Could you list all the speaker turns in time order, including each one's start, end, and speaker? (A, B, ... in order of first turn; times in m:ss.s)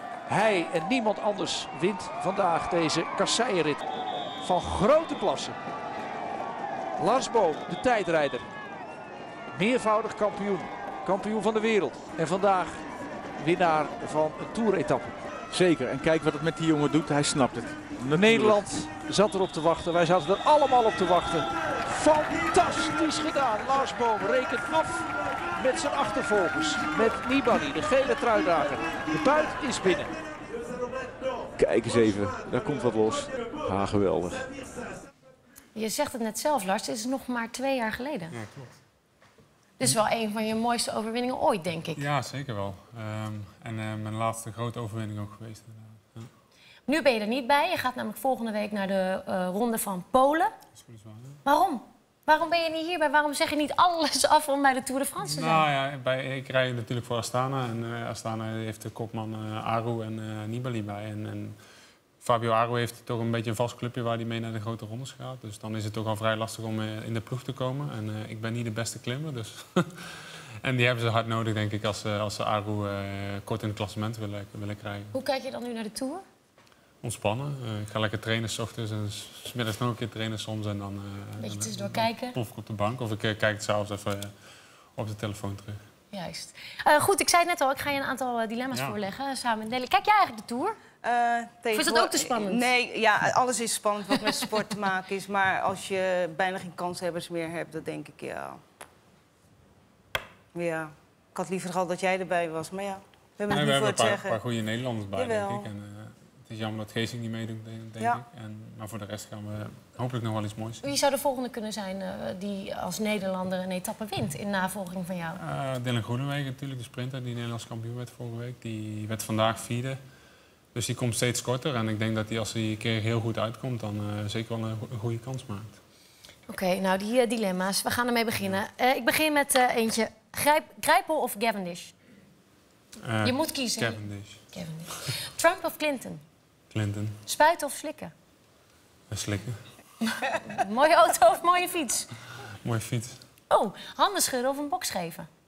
0:00.3-0:03.8 A
0:04.4-0:05.6 A
0:07.0-0:08.5 A
0:09.5-0:15.2 A
0:15.5-0:18.8 B
0:18.1-0:30.2 A
0:31.6-0:34.5 B
0:35.7-0:38.4 C
0:38.3-0:38.8 D
0:39.8-0:42.0 C
0:42.0-0:46.3 D
0:46.9-0:50.5 C
0:50.8-0:51.4 D
0:51.4-0:55.7 C
0:55.3-1:01.6 D
1:02.2-1:15.2 D
1:15.1-1:16.2 C
1:17.0-1:24.3 D
1:21.4-1:22.4 C
1:25.0-1:25.8 D
1:26.1-1:30.8 C
1:28.7-1:29.0 D
1:31.0-1:38.6 E
1:31.7-1:32.7 C
1:40.5-1:44.4 E
1:43.5-1:50.8 D
1:45.2-1:45.7 E
1:50.8-1:55.4 C
1:55.4-2:00.0 D
2:00.7-2:05.8 D
2:06.5-2:11.9 C
2:13.0-2:14.4 D
2:13.2-2:14.0 C
2:14.5-2:16.2 C
2:16.7-2:17.2 D
2:17.3-2:18.1 C
2:19.1-2:19.6 D
2:20.0-2:22.1 C
2:22.6-2:23.2 D
2:23.5-2:25.3 C